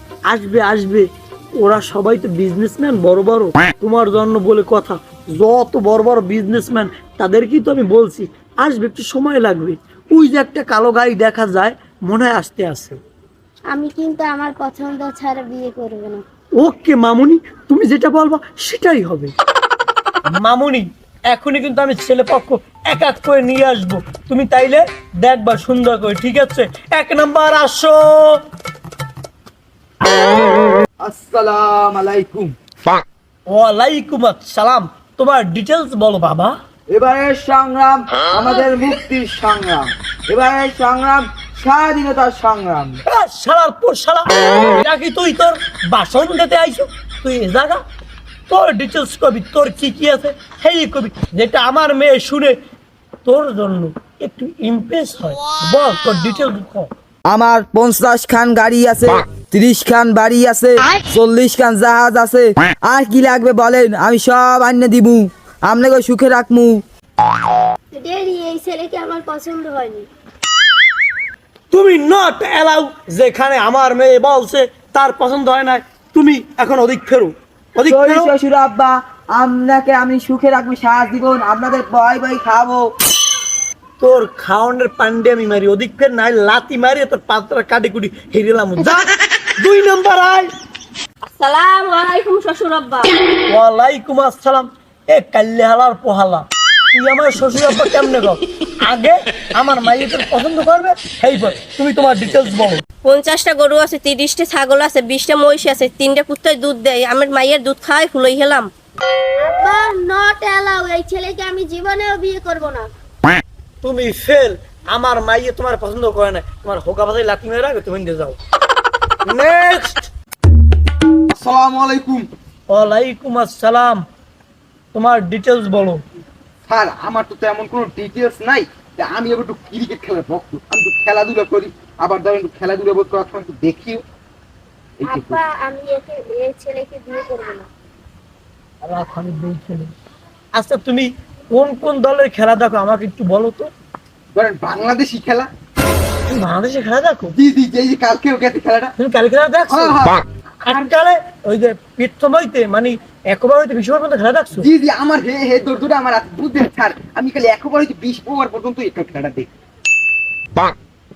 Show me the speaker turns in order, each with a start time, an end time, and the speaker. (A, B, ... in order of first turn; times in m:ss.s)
0:00.3-0:13.0 A
0:13.7-0:16.2 B
0:16.6-0:19.3 A
0:20.4-0:28.4 A
0:31.0-0:32.5 C
0:33.5-0:36.6 A
0:36.9-0:43.0 C
0:43.1-0:47.8 A
0:48.5-0:52.6 A
0:53.3-0:56.9 A
0:57.3-1:06.8 C
1:07.9-1:10.1 B
1:11.7-1:18.3 A
1:17.8-1:22.8 C
1:24.0-1:30.5 A
1:31.4-1:33.1 D
1:33.5-1:42.9 A
1:43.0-1:48.6 D
1:49.4-1:52.9 B
1:53.8-1:58.4 A
1:59.2-2:00.1 A
2:01.3-2:02.3 E
2:02.7-2:04.0 A
2:04.9-2:06.0 A
2:06.7-2:14.0 E
2:15.0-2:15.4 E
2:15.0-2:17.7 B
2:18.8-2:19.9 A
2:20.6-2:23.7 A
2:24.4-2:25.5 E
2:26.3-2:27.3 A
2:27.4-2:28.9 E
2:29.0-2:30.0 A
2:29.7-2:30.2 E
2:30.6-2:34.7 A
2:34.6-2:39.5 E